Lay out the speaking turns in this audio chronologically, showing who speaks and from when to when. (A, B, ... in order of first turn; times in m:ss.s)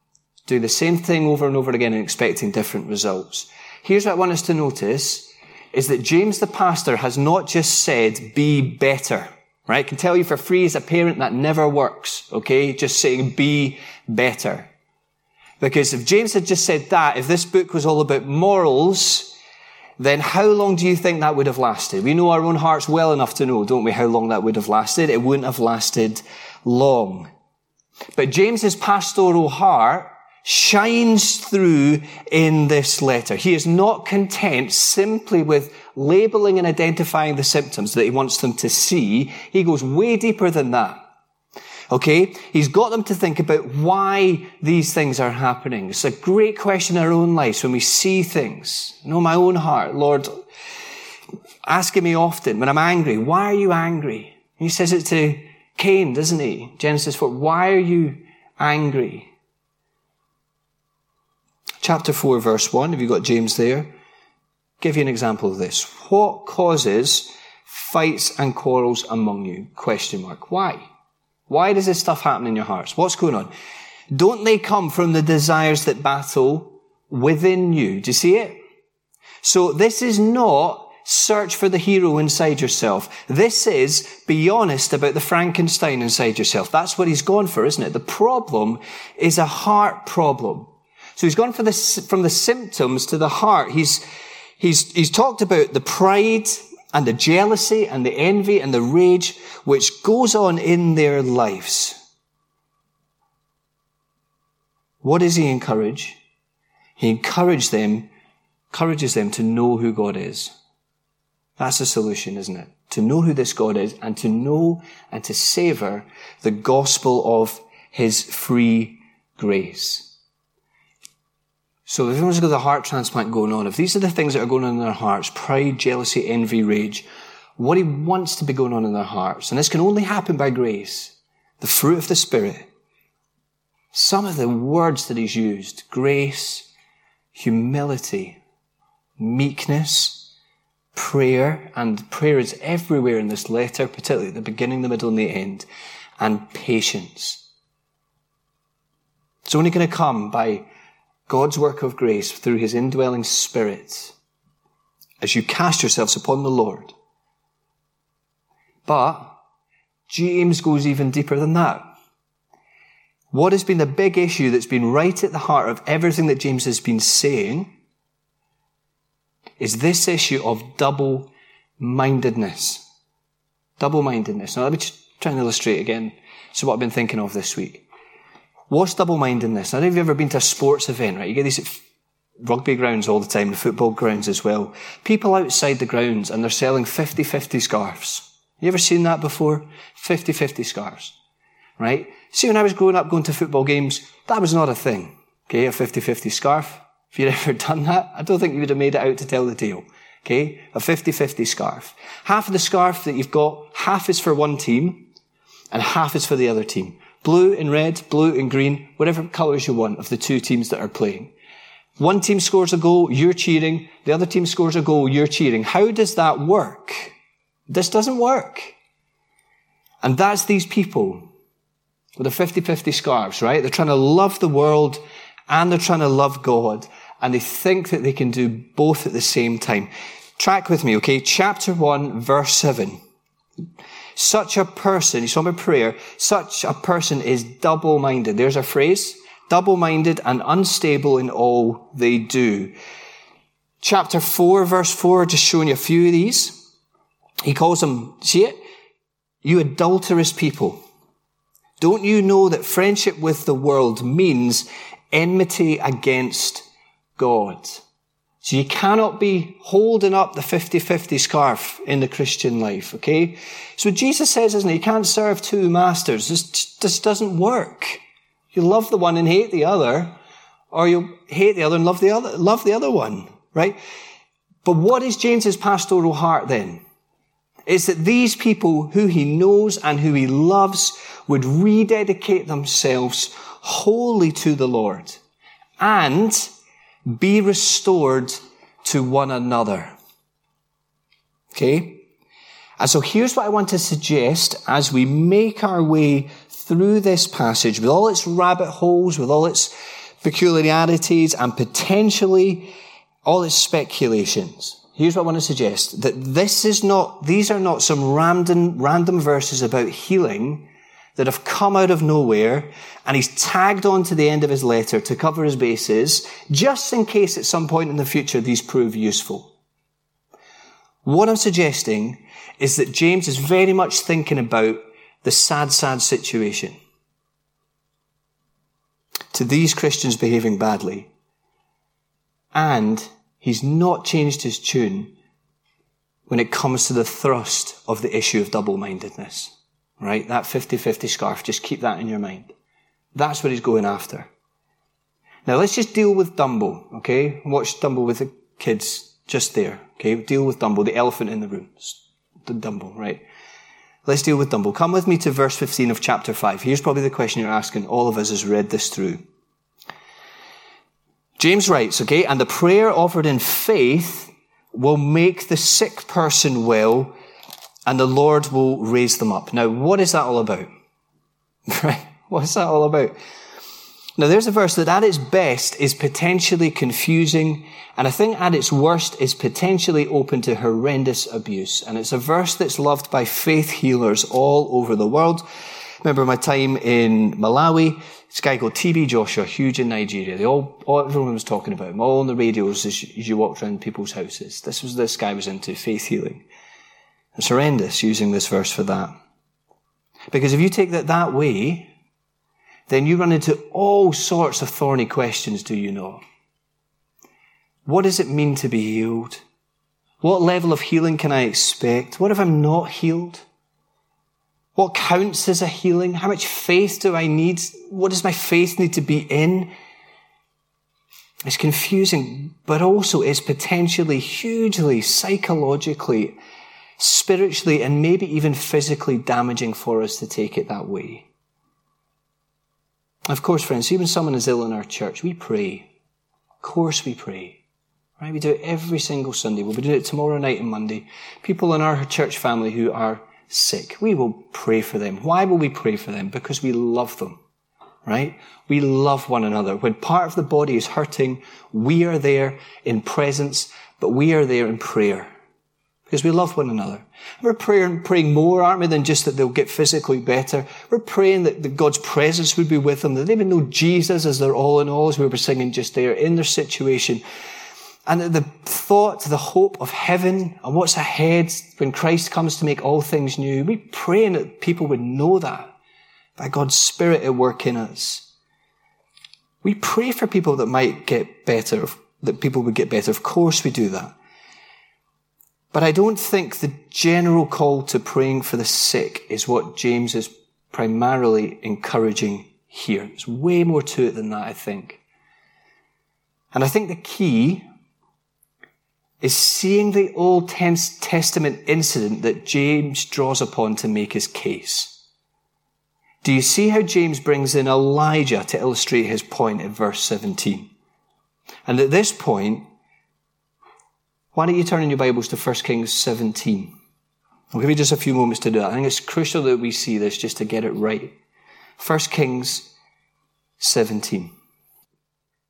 0:00.4-0:14.7 A
0:15.6-0:19.4 A
0:20.0-0:27.3 A
0:28.2-0:41.0 A
0:41.9-0:50.3 A
0:51.6-0:59.3 A
1:01.8-1:03.9 A
1:04.8-1:10.8 A
1:11.5-1:13.5 A
1:14.1-1:18.6 A
1:19.4-1:34.0 A
1:34.6-1:42.0 A
1:45.0-1:46.2 A
1:47.0-1:48.1 A
1:48.7-1:50.5 A
1:51.6-2:00.1 A
2:01.9-2:12.7 A
2:13.9-2:16.7 A
2:17.3-2:18.4 A
2:19.2-2:20.3 A
2:20.9-2:25.7 A
2:26.2-2:27.4 A
2:29.4-2:30.6 A
2:31.3-2:34.1 A
2:35.2-2:36.9 A
2:38.8-2:39.4 A
2:40.1-2:41.8 A
2:43.3-2:47.7 A
2:49.6-2:52.8 A
2:53.8-2:57.8 A
2:58.7-3:01.8 A
3:02.4-3:11.1 A
3:11.8-3:25.1 A
3:25.7-3:31.3 A
3:32.0-3:37.1 A
3:37.7-3:38.7 A
3:40.0-3:41.3 A
3:42.2-3:53.0 A
3:54.2-4:02.7 A
4:03.8-4:06.6 A
4:07.4-4:08.5 A
4:09.4-4:10.8 A
4:11.8-4:16.6 A
4:17.2-4:17.8 A
4:18.4-4:28.0 A
4:28.5-4:30.2 A
4:30.7-4:33.8 A
4:34.6-4:36.8 A
4:37.6-4:45.2 A
4:45.8-4:46.5 A
4:47.1-4:49.9 A
4:51.5-4:52.1 A
4:52.8-5:02.7 A
5:03.2-5:19.5 A
5:21.0-5:26.7 A
5:29.3-5:31.1 A
5:32.5-5:35.1 A
5:36.3-5:42.5 A
5:43.1-5:44.3 A
5:45.4-5:53.2 A
5:54.0-5:59.2 A
6:01.4-6:07.1 A
6:07.8-6:10.7 A
6:11.7-6:13.1 A
6:14.2-6:25.4 A
6:26.0-6:36.4 A
6:37.3-6:39.1 A
6:40.3-6:41.9 A
6:42.9-6:46.2 A
6:47.8-6:49.4 A
6:50.2-6:53.4 A
6:54.8-6:59.7 A
7:01.4-7:06.4 A
7:07.0-7:11.3 A
7:13.3-7:15.9 A
7:16.6-7:17.6 A
7:18.2-7:27.4 A
7:28.0-7:35.3 A
7:36.1-7:47.2 A
7:48.1-7:55.7 A
7:56.4-7:58.3 A
7:59.6-8:04.1 A
8:05.7-8:15.0 A
8:16.5-8:17.6 A
8:19.2-8:25.0 A
8:26.2-8:30.7 A
8:31.6-8:32.6 A
8:34.3-8:36.7 A
8:37.5-8:41.1 A
8:41.8-8:42.7 A
8:43.6-8:44.3 A